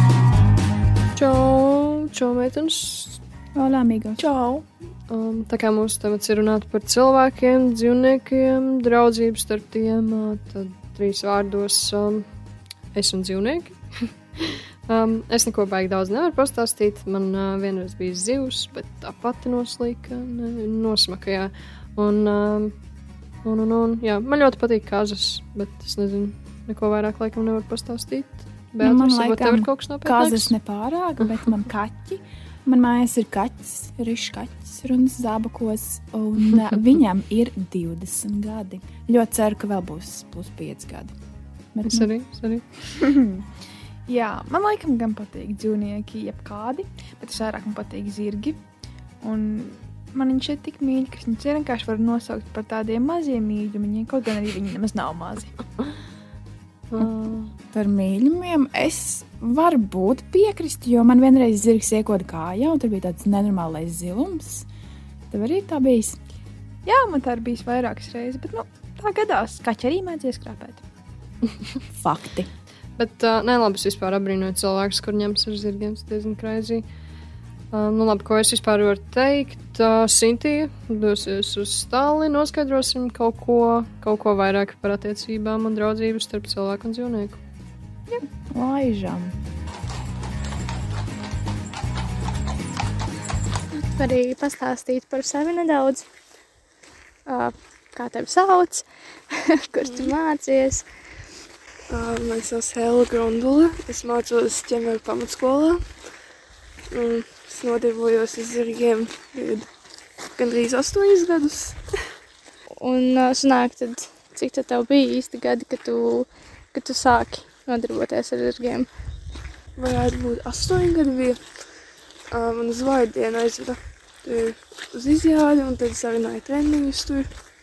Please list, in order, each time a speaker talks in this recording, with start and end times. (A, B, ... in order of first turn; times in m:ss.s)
0:01.2-0:03.2 A
0:03.6-0:04.6 B
0:05.1-0:12.2 A
0:12.9-0:22.7 A
0:23.4-0:30.6 A
0:30.3-0:41.1 C
0:31.2-0:31.5 A
0:41.8-0:42.1 C
0:41.8-0:42.6 A
0:44.1-0:48.6 B
0:49.2-0:55.5 B
0:56.9-0:57.5 A
0:57.7-1:04.6 C
1:05.3-1:06.2 C
1:06.8-1:10.8 B
1:13.0-1:16.8 A
1:17.7-1:27.4 A
1:28.6-1:29.3 C
1:33.7-1:36.0 D
1:37.2-1:40.8 D
1:41.9-1:45.9 E
1:46.9-1:49.7 E
1:50.4-1:51.8 E
1:52.8-1:58.9 D
1:59.8-2:01.4 E
2:02.3-2:07.3 E